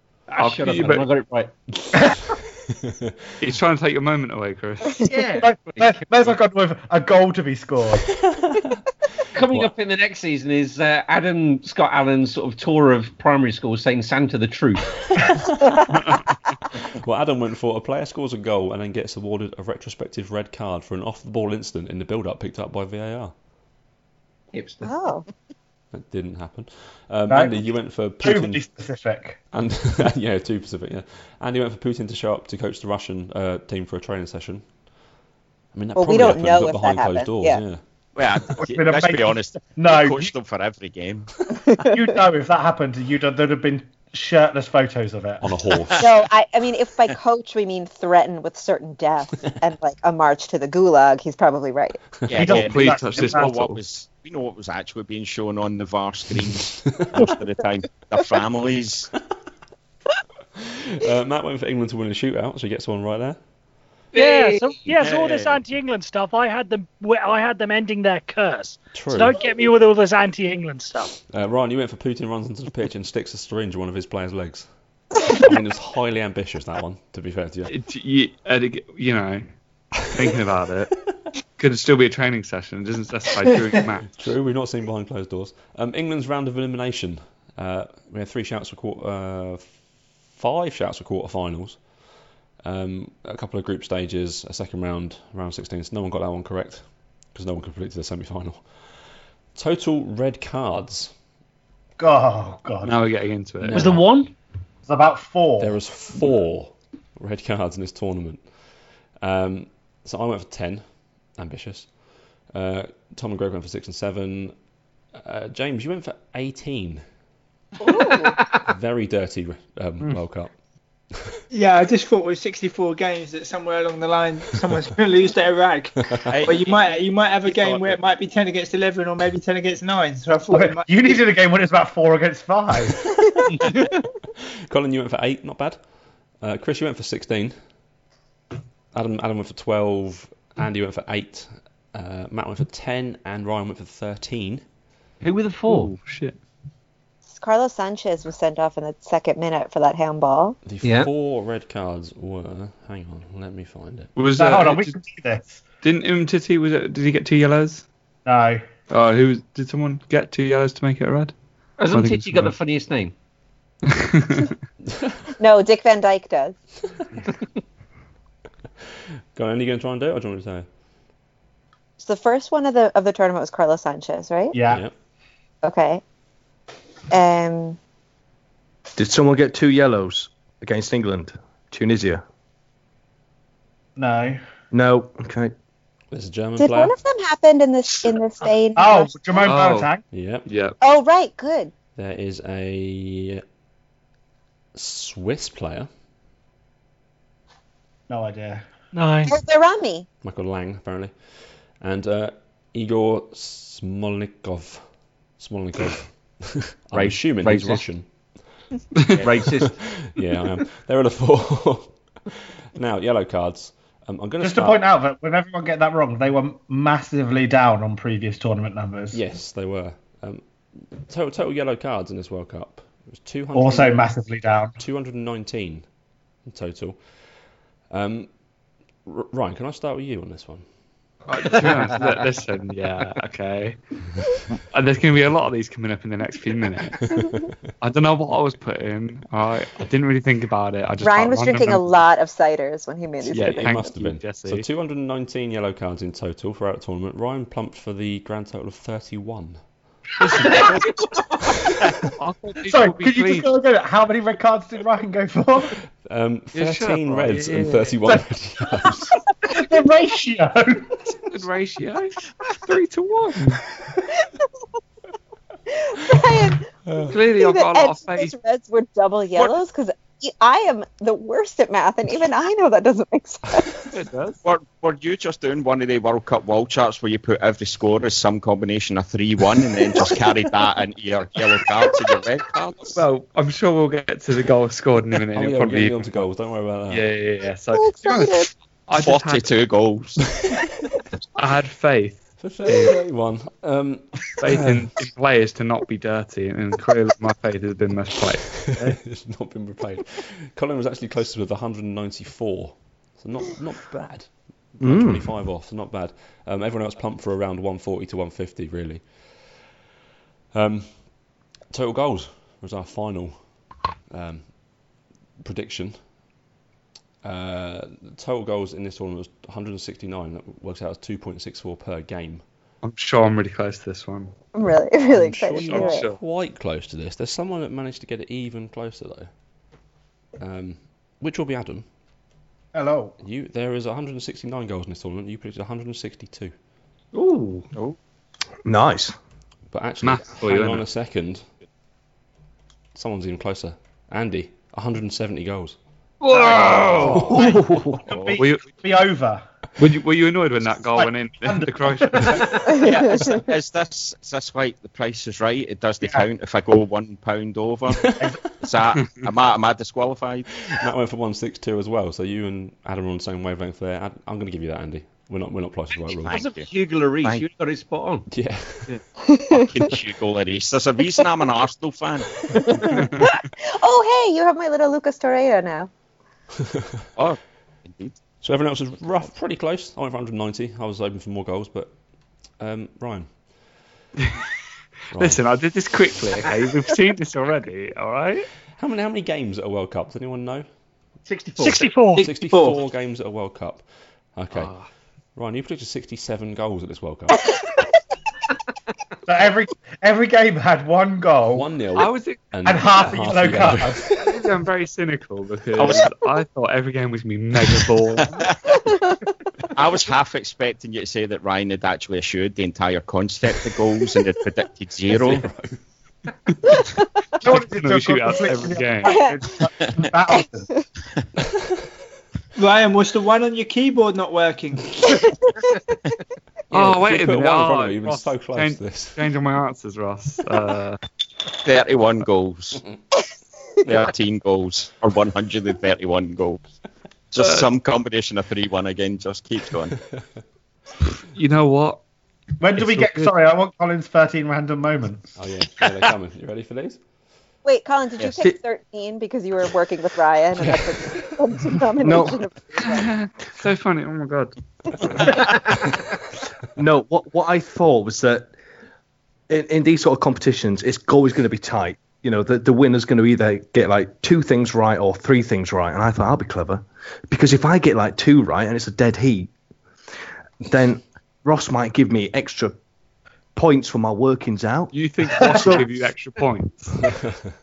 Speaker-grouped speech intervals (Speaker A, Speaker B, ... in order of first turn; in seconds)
Speaker A: 0.3-1.5, 5.0-6.3, 9.3-14.9, 24.5-24.9, 64.1-64.9, 103.7-104.3, 118.2-118.6, 133.5-134.0, 145.2-145.9, 150.8-151.1, 161.8-163.1, 206.9-207.8, 209.2-209.8, 231.4-232.2, 337.1-337.7, 346.2-347.5, 366.3-368.2, 372.5-372.8, 391.2-391.9
Speaker B: 0.4-1.0, 3.4-5.1, 52.4-53.8, 77.7-79.5, 80.1-80.9, 81.6-84.1, 102.8-104.0, 145.7-146.4, 154.2-154.9, 155.8-157.8, 158.9-161.3, 161.9-162.5, 163.9-164.5, 189.4-189.9, 190.4-190.7, 231.3-233.8, 234.7-237.0, 237.8-241.9, 243.3-244.6, 250.2-251.0, 252.0-253.4, 256.5-258.0, 261.0-263.6, 267.1-268.3, 273.9-274.4, 282.9-286.2, 286.9-289.4, 291.4-293.0, 294.4-299.0, 322.8-324.3, 325.6-326.2, 340.0-340.8, 347.0-347.3, 348.4-348.7, 349.8-352.6, 372.9-373.4, 384.2-384.4, 385.1-388.5, 394.5-394.9, 401.9-403.1, 404.1-408.5, 417.4-419.3, 426.7-431.0, 437.4-437.7, 441.3-442.0, 442.8-443.3, 452.8-455.4, 474.9-477.1
Speaker C: 1.8-3.1, 8.3-8.8, 9.4-9.7, 16.8-23.3, 25.9-28.6, 29.5-34.6, 35.7-37.8, 45.4-46.0, 56.5-57.1, 60.6-63.4, 68.9-69.4, 71.3-74.7, 75.3-77.7, 84.2-89.7, 90.3-91.8, 92.6-99.0, 99.5-101.1, 105.6-108.4, 109.2-110.8, 111.3-111.9, 112.5-114.5, 115.2-117.0, 118.7-120.5, 121.1-121.4, 126.0-126.3, 134.7-135.8, 136.4-137.5, 138.9-144.6, 150.7-154.1, 169.3-170.7, 186.1-186.9, 190.1-190.4, 191.9-193.4, 194.7-195.9, 200.2-204.8, 205.4-208.1, 209.3-214.8, 219.1-224.1, 224.8-225.8, 226.4-227.0, 227.9-228.3, 229.1-230.6, 237.0-237.5, 243.3-249.6, 256.0-259.1, 266.9-267.1, 285.3-287.0, 292.4-294.8, 298.5-309.5, 310.5-311.0, 311.7-313.4, 314.1-314.4, 315.4-315.9, 317.2-322.4, 325.0-329.3, 330.4-331.8, 333.2-336.5, 339.7-341.4, 342.9-345.8, 347.0-347.4, 357.9-358.3, 360.6-366.4, 368.3-368.9, 378.4-381.9, 382.6-383.3, 385.1-385.4, 388.8-390.6, 392.2-393.8, 394.4-394.7, 395.4-397.5, 401.5-404.1, 415.1-415.8, 426.7-429.3, 445.4-447.0, 450.6-450.9, 477.0-477.4
Speaker D: 1.9-2.2, 5.3-8.1, 27.3-27.5, 28.2-29.4, 38.6-40.3, 41.8-45.4, 52.3-53.5, 102.0-102.9, 104.9-105.8, 130.5-133.1, 154.3-155.6, 158.2-158.7, 174.5-174.8, 183.9-184.4, 188.7-190.0, 198.1-198.6, 214.4-219.2, 223.5-224.8, 252.7-255.8, 259.4-260.9, 332.7-333.1, 346.3-349.4, 351.0-352.5, 356.0-356.3, 399.2-401.6, 402.6-404.3, 417.4-420.7, 442.6-445.3
Speaker E: 24.8-25.2, 35.9-37.6, 46.0-52.0, 117.8-118.3, 147.3-150.6, 165.4-166.6, 172.0-174.5, 175.6-176.0, 177.1-177.8, 186.6-189.5, 190.8-191.7, 199.3-200.1, 241.0-243.9, 265.7-273.8, 287.7-288.5, 324.5-326.1, 352.7-353.4, 369.3-369.6, 372.9-375.9, 419.1-419.4, 447.6-453.1
Speaker F: 38.1-41.3, 52.3-59.1, 65.0-65.6, 126.2-126.9, 127.5-128.0, 209.1-209.5, 274.4-283.0, 288.9-290.3, 348.1-348.4, 352.8-360.5, 365.9-366.7, 369.5-372.4, 377.1-378.1, 405.8-406.1, 409.7-415.4, 431.6-432.8, 433.8-436.6, 437.3-439.9
Speaker G: 64.1-71.2, 198.9-199.3, 391.6-392.3
Speaker H: 121.5-131.2, 392.2-392.8, 422.6-425.0
Speaker I: 179.0-182.2, 184.7-185.5, 304.8-305.3, 338.6-339.1, 347.3-348.0, 452.0-452.4, 456.8-458.5, 459.5-469.5, 470.6-472.8, 473.5-475.9